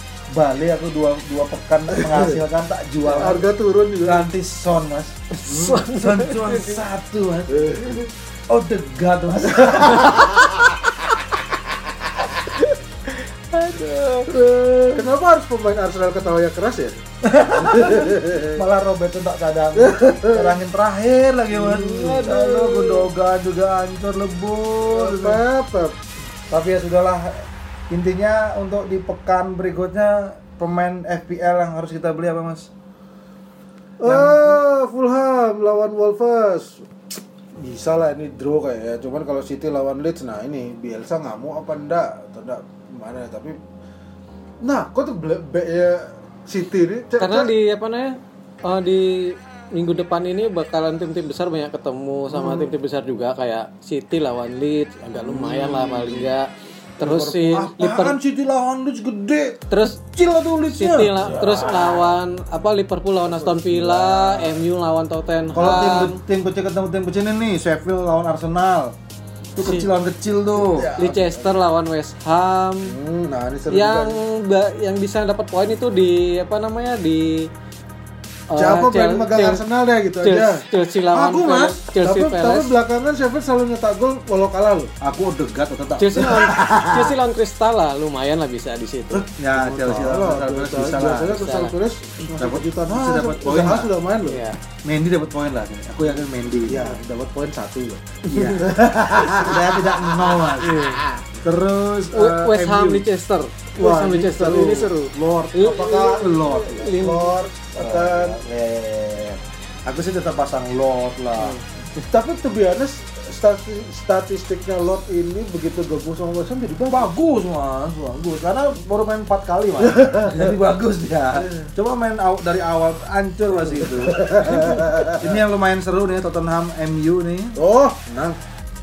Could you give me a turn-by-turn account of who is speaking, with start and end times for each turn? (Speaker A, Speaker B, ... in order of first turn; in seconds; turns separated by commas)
Speaker A: 0.3-3.5, Speaker B: 1.9-2.3, Speaker B: 3.1-4.3, Speaker A: 4.0-5.2, Speaker C: 5.3-6.8, Speaker B: 5.5-5.8, Speaker A: 5.7-10.5, Speaker B: 7.5-8.0, Speaker B: 9.4-10.7, Speaker C: 12.4-14.3, Speaker A: 14.3-15.0, Speaker B: 14.9-17.0, Speaker A: 17.2-25.4, Speaker B: 17.5-18.6, Speaker B: 19.8-20.6, Speaker B: 21.5-22.8, Speaker C: 22.6-23.0, Speaker B: 24.9-25.9, Speaker A: 26.5-32.7, Speaker B: 34.0-36.8, Speaker A: 34.0-34.6, Speaker B: 37.5-43.6, Speaker B: 44.6-47.5, Speaker C: 47.2-58.1, Speaker A: 52.3-52.7, Speaker B: 55.2-56.2, Speaker A: 57.0-61.4, Speaker C: 59.7-60.0, Speaker C: 60.7-66.2, Speaker B: 61.2-62.1, Speaker B: 63.2-64.5, Speaker A: 65.5-68.9, Speaker A: 69.5-70.9, Speaker C: 69.6-69.9, Speaker B: 70.6-71.5, Speaker C: 71.0-72.9, Speaker B: 72.8-74.2, Speaker C: 73.7-77.5, Speaker C: 78.5-79.6, Speaker B: 78.5-80.6, Speaker C: 80.2-82.7, Speaker A: 81.1-81.8, Speaker B: 82.0-84.9, Speaker A: 85.0-87.1, Speaker C: 86.0-89.3, Speaker B: 89.1-94.4, Speaker A: 89.4-91.4, Speaker C: 91.3-91.7, Speaker A: 92.2-93.9, Speaker C: 94.2-94.6, Speaker A: 94.8-97.0, Speaker B: 96.7-100.9, Speaker C: 98.3-98.6, Speaker A: 98.3-100.8, Speaker C: 100.6-101.0, Speaker A: 101.4-103.0, Speaker C: 102.1-107.3, Speaker B: 103.8-104.8, Speaker A: 104.6-106.9, Speaker B: 105.7-108.4, Speaker A: 107.8-111.6, Speaker B: 112.0-117.1, Speaker A: 116.9-127.6, Speaker B: 119.8-120.5, Speaker B: 121.3-121.7, Speaker B: 123.7-125.3, Speaker B: 127.5-128.4